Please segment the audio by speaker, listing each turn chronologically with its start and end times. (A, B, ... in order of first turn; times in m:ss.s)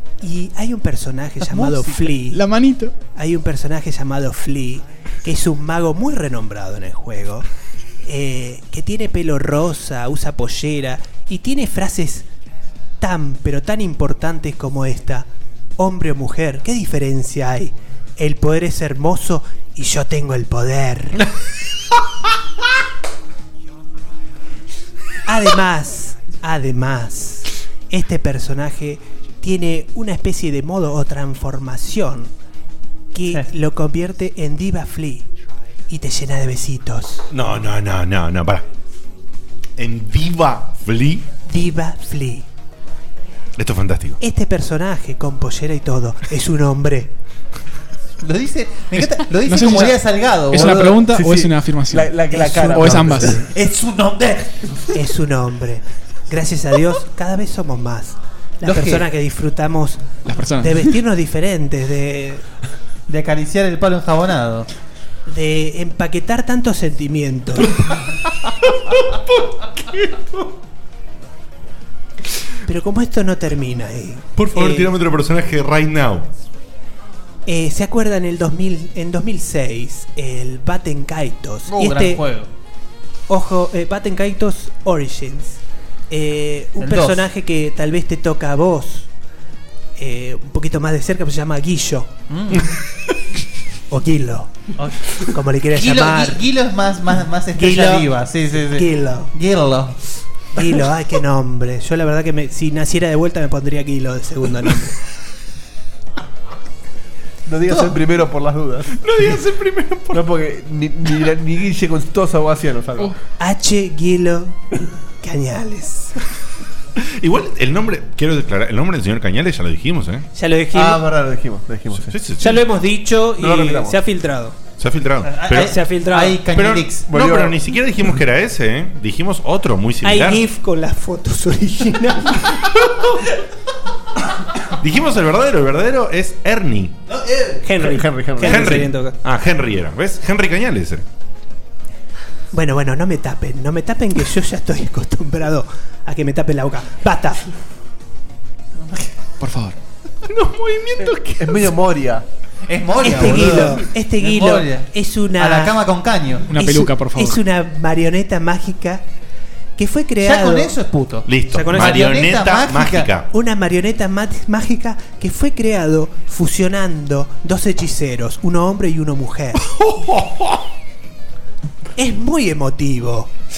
0:00.2-0:02.4 A
0:01.4-0:02.1 B
0:02.3-0:02.9 C
0:03.1-0:07.5 A
0:08.0-0:12.3 A
0:13.0-0:21.2 A
0:25.3-0:32.3 A
0:33.1-0:35.3 A
0:35.9-0:37.3 A
0:37.3-0:38.6 D
0:39.8-0:41.3 D
0:41.4-0:42.4 A
0:43.6-0:44.2 D
0:44.2-0:47.1 A
0:48.2-0:51.0 B
0:48.9-0:50.0 C
0:50.5-0:53.4 C
0:50.6-0:53.4 E
0:52.3-0:53.5 A
0:53.4-0:54.7 B
0:54.9-1:00.1 A
0:58.6-0:59.1 B
1:00.2-1:00.9 C
1:00.6-1:02.4 A
1:03.1-1:04.7 B
1:05.3-1:07.8 A
1:09.8-1:10.4 D
1:12.7-1:14.9 A
1:14.3-1:16.3 D
1:17.4-1:22.2 A
1:21.7-1:22.5 B
1:23.3-1:29.1 A
1:26.8-1:27.2 B
1:30.0-1:32.1 A
1:32.3-1:32.6 B
1:33.9-1:34.5 A
1:34.8-1:35.1 B
1:35.3-1:36.4 A
1:35.7-1:40.0 B
1:37.5-1:39.3 A
1:40.5-1:45.0 A
1:47.5-1:49.0 E
1:49.0-1:50.2 D
1:50.1-1:53.1 E
1:53.4-1:54.6 A
1:55.2-1:56.2 A
1:57.0-2:00.3 D
2:00.3-2:01.0 A
2:00.7-2:02.2 E
2:02.0-2:02.6 D
2:02.4-2:04.6 A
2:03.4-2:04.0 E
2:04.8-2:05.8 D
2:05.2-2:07.1 B
2:05.5-2:06.4 A
2:06.5-2:10.4 D
2:07.1-2:07.7 E
2:10.0-2:12.6 A
2:14.8-2:16.9 D
2:17.1-2:17.6 B
2:17.6-2:19.2 A
2:17.8-2:18.8 E
2:18.4-2:21.0 D
2:22.5-2:27.4 A
2:29.4-2:29.8 C
2:30.2-2:31.6 D
2:31.0-2:32.2 E
2:32.7-2:36.5 B
2:33.0-2:35.8 A
2:33.3-2:33.7 E
2:36.5-2:37.4 C
2:36.5-2:39.0 A
2:39.8-2:40.7 A
2:40.2-2:43.1 B
2:41.2-2:43.3 D
2:41.5-2:42.1 A
2:43.3-2:49.6 A
2:49.7-2:50.3 D
2:52.0-2:53.3 A